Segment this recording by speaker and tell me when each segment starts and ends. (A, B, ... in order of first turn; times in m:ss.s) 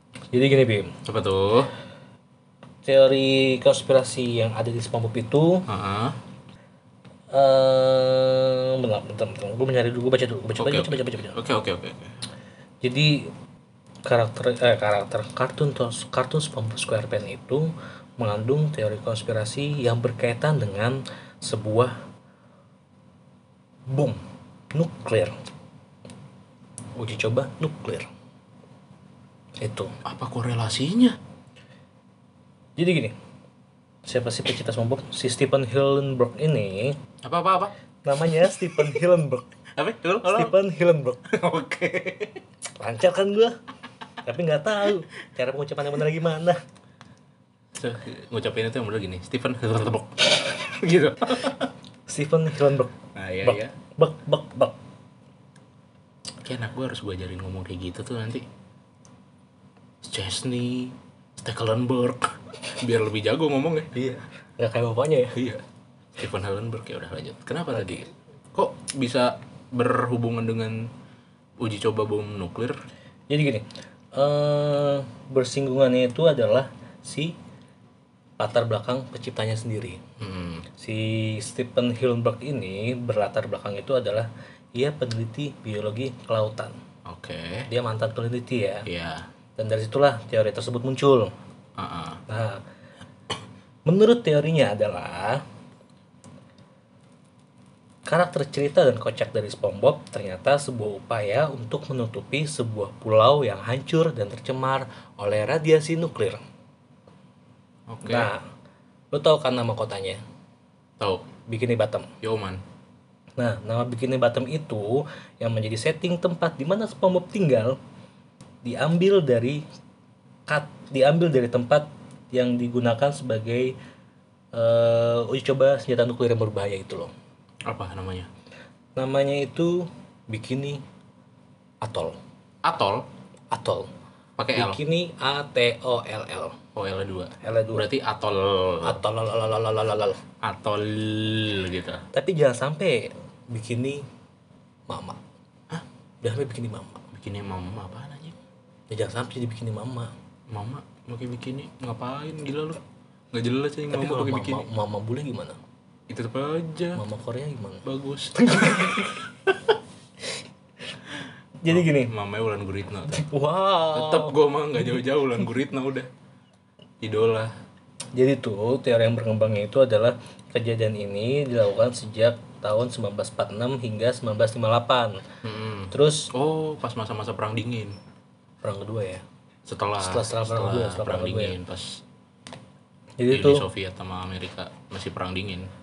0:00.3-0:01.0 A
0:01.0-0:01.7 B
0:02.8-0:05.6 A
0:05.7-0:06.2 B
0:07.3-0:11.4 A
0:10.6-0:12.1 B
0:12.8-0:13.3 A
0:14.0-0:21.9 A
0:23.9-0:24.2 A
0:24.7-0:25.3 A
0:27.0-0:28.1 A
0:29.6-0:29.9 A
0:30.0-0:31.2 B
0:32.8-0:33.1 A
0:34.0-0:37.0 A
0:37.2-0:37.7 B
0:38.0-0:39.5 A
0:39.8-0:40.5 B
0:40.2-0:41.2 A
0:41.2-0:42.4 B
0:42.8-0:43.6 A
0:44.2-0:46.6 A
0:47.8-0:51.7 B
0:52.1-0:54.8 A
0:53.1-0:53.7 B
0:56.4-0:58.4 B
1:00.0-1:03.9 B
1:03.9-1:05.4 A
1:05.3-1:05.6 B
1:06.2-1:10.9 B
1:07.7-1:08.0 A
1:11.6-1:12.8 B
1:13.3-1:17.4 A
1:18.4-1:20.0 A
1:20.2-1:20.6 B
1:20.8-1:26.8 A
1:27.0-1:27.7 B
1:27.7-1:28.9 A
1:28.8-1:29.3 B
1:29.6-1:31.3 A
1:31.8-1:32.2 B
1:32.3-1:32.6 A
1:33.8-1:35.4 A
1:38.1-1:46.4 A
1:47.9-1:48.3 B
1:48.0-1:48.4 A
1:49.1-1:50.2 A
1:51.0-1:51.2 B
1:51.5-1:52.1 A
1:52.2-1:52.6 B
1:53.4-1:57.8 A
1:58.6-1:59.6 A
2:00.5-2:03.8 A
2:04.5-2:07.1 A
2:07.7-2:08.3 B
2:09.0-2:10.8 A
2:11.8-2:12.2 A
2:12.6-2:13.1 B
2:13.5-2:13.9 A
2:14.4-2:14.8 B
2:14.5-2:16.6 A
2:16.7-2:19.0 B
2:17.4-2:17.8 A
2:18.8-2:20.2 A
2:20.4-2:22.0 B
2:22.1-2:24.0 A
2:24.9-2:25.2 A
2:26.2-2:27.0 A
2:27.1-2:28.4 B
2:28.9-2:30.1 A
2:30.5-2:32.8 B
2:33.3-2:34.7 B
2:33.9-2:35.6 A
2:36.1-2:37.0 B
2:36.9-2:39.2 A
2:37.8-2:39.0 B
2:41.6-2:42.1 A
2:41.7-2:43.2 B
2:43.1-2:44.4 A
2:43.9-2:46.1 B
2:47.0-2:47.5 B
2:48.1-2:55.2 A
2:55.4-2:58.0 B
2:55.9-2:56.3 A
2:58.6-2:59.2 A
2:59.6-3:02.0 B
3:00.0-3:01.6 A
3:03.2-3:03.6 A
3:03.3-3:05.7 B